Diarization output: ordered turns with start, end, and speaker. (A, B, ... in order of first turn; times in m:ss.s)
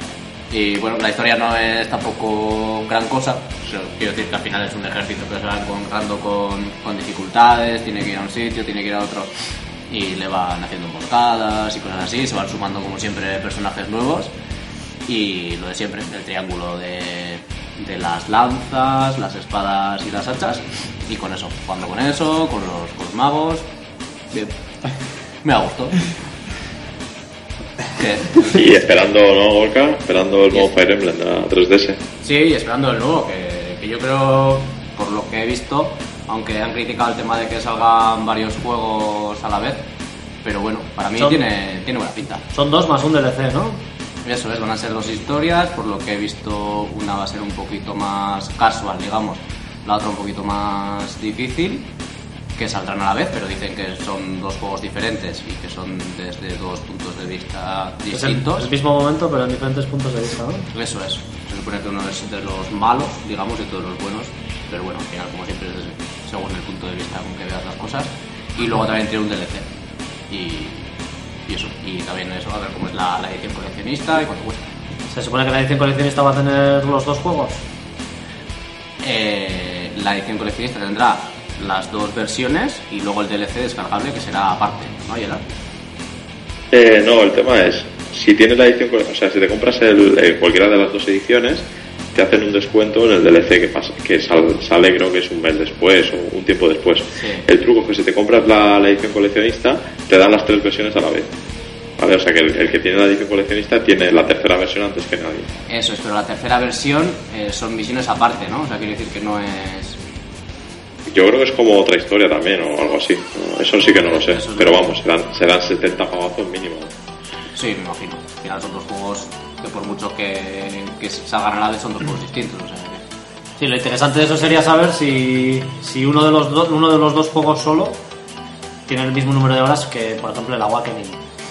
0:00.5-0:09.3 A
0:09.9-0:14.3 A
0:15.0-0:23.7 A
0:25.4-0:26.0 A
0:28.0-0:28.6 A
0:28.5-0:32.0 B
0:32.2-0:39.8 A
0:40.4-0:42.4 A
0:42.5-0:43.8 C
0:44.2-0:51.9 A
0:52.6-0:58.7 A
0:58.1-1:00.6 C
1:00.7-1:09.7 A
1:10.3-1:10.9 A
1:11.5-1:14.7 A
1:15.1-1:17.6 C
1:19.0-1:25.4 A
1:26.7-1:41.3 B
1:37.1-1:37.5 A
1:42.0-1:45.5 B
1:45.7-1:50.0 A
1:51.1-1:56.9 B
1:53.9-1:54.9 A
1:57.5-2:03.0 A
2:03.6-2:08.0 C
2:08.9-2:11.2 C